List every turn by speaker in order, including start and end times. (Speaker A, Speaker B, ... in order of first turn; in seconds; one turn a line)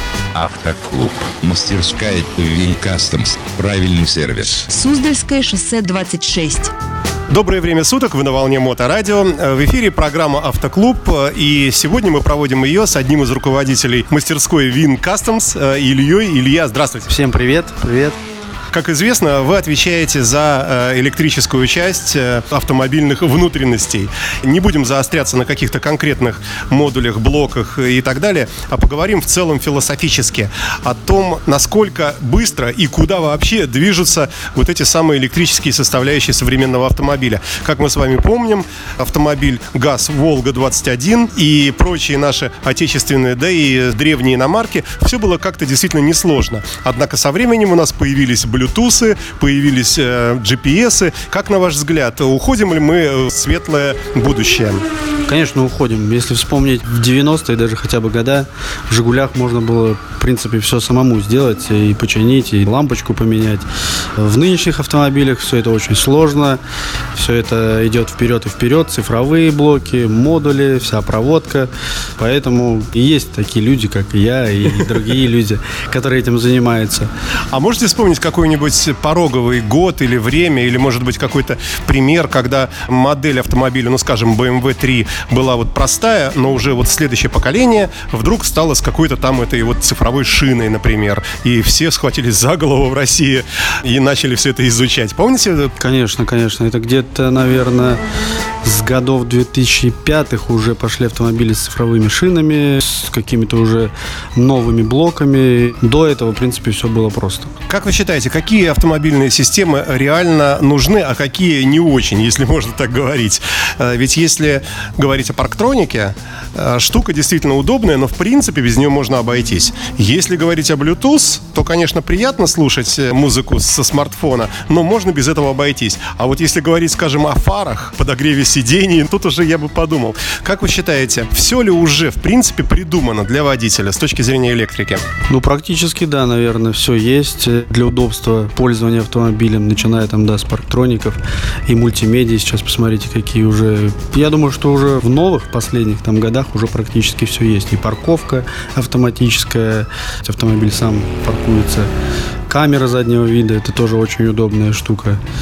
Speaker A: 0.3-4.6
Speaker B: 4.7-6.7
Speaker C: 7.3-17.1
Speaker D: 17.1-18.1
Speaker C: 18.7-54.8
Speaker D: 55.2-63.6
Speaker D: 64.2-66.6
Speaker D: 67.1-77.1
Speaker C: 77.5-95.7
Speaker D: 95.8-98.0
Speaker D: 98.6-107.5
Speaker C: 107.7-135.0
Speaker D: 135.3-151.9
Speaker D: 152.5-155.2